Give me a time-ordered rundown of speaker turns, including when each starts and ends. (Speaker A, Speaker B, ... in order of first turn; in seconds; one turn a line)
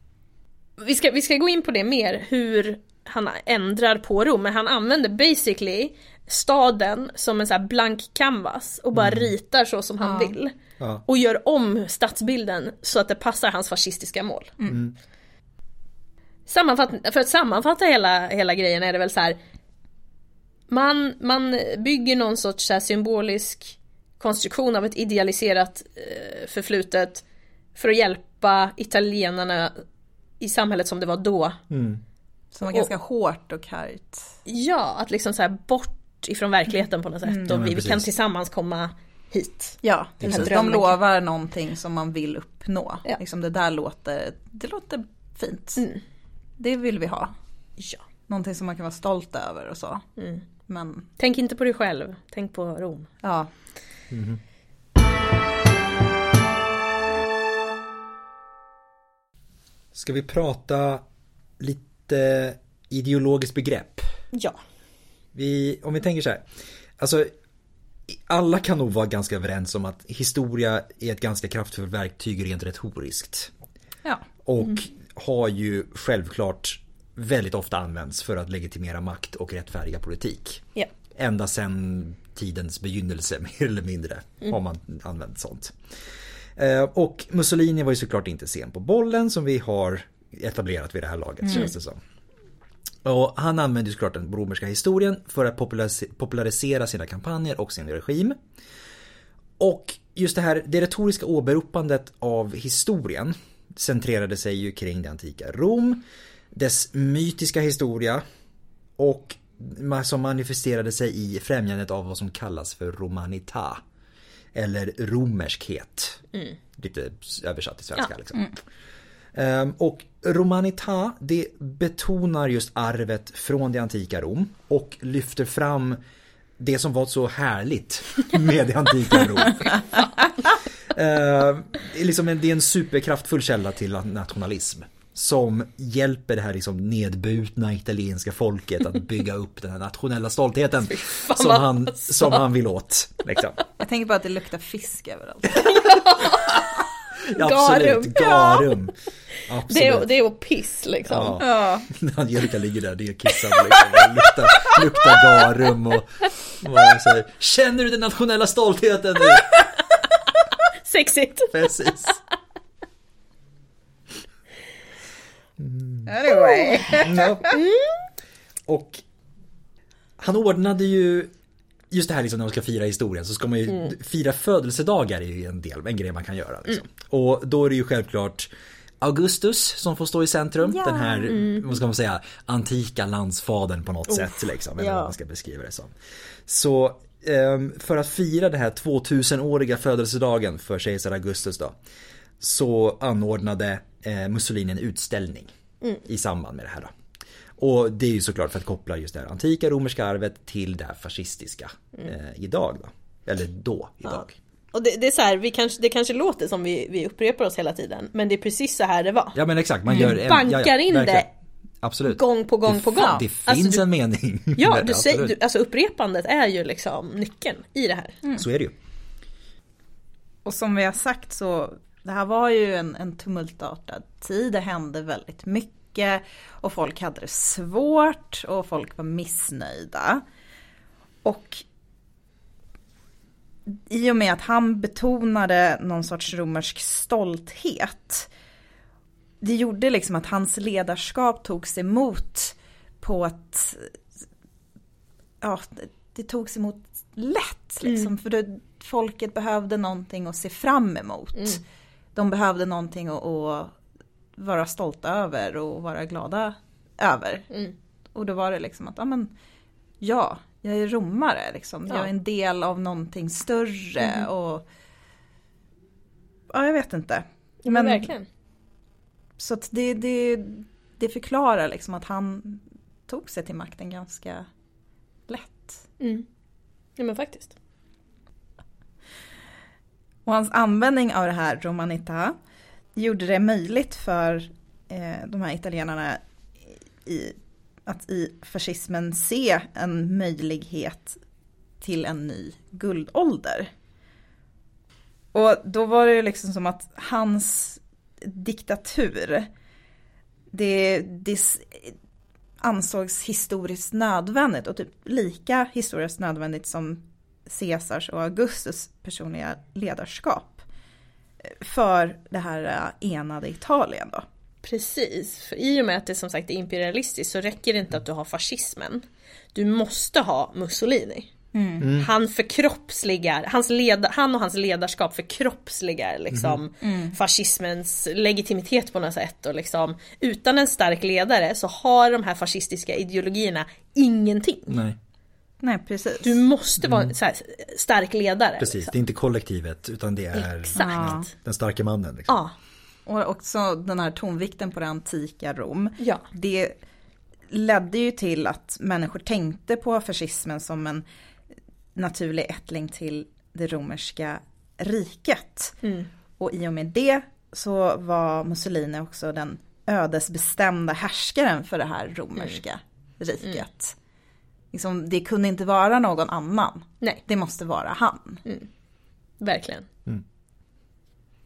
Speaker A: 0.8-10.5
Speaker B: 8.9-9.3
Speaker C: 10.0-10.4
Speaker A: 11.1-14.6
Speaker B: 14.7-14.9
Speaker A: 16.5-19.4
Speaker A: 20.7-27.2
Speaker A: 27.8-29.8
Speaker A: 30.4-31.6
Speaker B: 31.7-32.0
Speaker C: 32.5-34.3
Speaker A: 34.5-41.0
Speaker B: 37.5-38.1
Speaker C: 39.8-45.8
Speaker B: 40.2-40.5
Speaker C: 46.6-47.3
Speaker A: 47.8-48.0
Speaker C: 48.3-50.0
Speaker A: 50.2-50.4
Speaker C: 50.7-51.1
Speaker A: 51.2-53.1
Speaker C: 53.2-53.5
Speaker B: 54.1-54.4
Speaker B: 59.9-61.0
Speaker B: 61.6-64.0
Speaker A: 64.3-64.6
Speaker B: 65.3-66.5
Speaker B: 67.0-67.3
Speaker B: 68.1-73.5
Speaker B: 74.4-85.8
Speaker B: 86.5-92.0
Speaker B: 93.0-98.4
Speaker B: 99.6-108.2
Speaker B: 109.0-113.8
Speaker B: 114.5-116.2
Speaker B: 116.8-118.5
Speaker B: 119.3-126.0
Speaker B: 126.6-130.0
Speaker A: 129.8-130.2
Speaker B: 130.9-143.6
Speaker A: 140.8-142.4
Speaker C: 143.8-145.6
Speaker A: 145.5-146.8
Speaker B: 147.3-148.9
Speaker A: 147.3-148.7
Speaker B: 149.5-150.1
Speaker A: 149.7-151.4
Speaker B: 151.1-159.6
Speaker C: 151.4-151.9
Speaker A: 154.6-155.2
Speaker A: 159.4-159.9
Speaker A: 160.7-162.1
Speaker B: 161.5-162.2
Speaker B: 165.6-166.1
Speaker C: 166.1-167.6
Speaker A: 166.3-168.0
Speaker B: 166.9-167.6
Speaker B: 168.7-169.0
Speaker B: 170.2-171.3
Speaker B: 171.9-178.5
Speaker B: 179.0-185.9
Speaker C: 180.7-181.4
Speaker A: 181.3-181.7
Speaker A: 184.1-185.1
Speaker B: 186.5-191.8
Speaker B: 192.4-195.5
Speaker B: 196.0-196.9
Speaker B: 197.6-204.3
Speaker A: 204.0-209.4
Speaker B: 209.3-211.3
Speaker A: 209.9-211.3
Speaker B: 211.8-215.3
Speaker A: 212.1-213.8
Speaker A: 214.6-218.2
Speaker B: 218.3-218.7
Speaker C: 220.4-230.2
Speaker C: 231.2-231.6
Speaker C: 233.7-238.3
Speaker C: 239.4-243.9
Speaker C: 245.4-251.6
Speaker A: 247.8-248.1
Speaker C: 252.1-253.7
Speaker C: 254.4-257.5
Speaker C: 258.1-259.3
Speaker C: 260.0-264.6
Speaker C: 266.5-268.1
Speaker A: 267.6-268.3
Speaker C: 269.4-274.4
Speaker C: 275.3-275.8
Speaker A: 276.0-276.2
Speaker A: 277.0-277.5
Speaker C: 280.2-282.4
Speaker C: 282.9-286.2
Speaker C: 287.1-291.2
Speaker C: 291.8-293.7
Speaker C: 295.3-299.5
Speaker C: 300.5-301.9
Speaker C: 302.6-310.6
Speaker C: 311.4-314.2
Speaker A: 314.6-321.3
Speaker C: 321.5-321.9
Speaker B: 321.8-322.1
Speaker A: 321.8-334.8
Speaker B: 326.3-326.6
Speaker C: 326.8-327.1
Speaker B: 334.7-335.0
Speaker C: 335.6-336.4
Speaker A: 336.2-338.9
Speaker B: 336.8-337.1
Speaker B: 338.6-342.3
Speaker A: 340.3-341.3
Speaker C: 340.8-341.3
Speaker A: 342.3-342.5
Speaker C: 343.1-346.8
Speaker C: 347.5-351.0
Speaker C: 351.9-355.8
Speaker A: 355.8-356.1
Speaker C: 356.4-363.9
Speaker C: 364.7-368.4
Speaker A: 369.4-369.9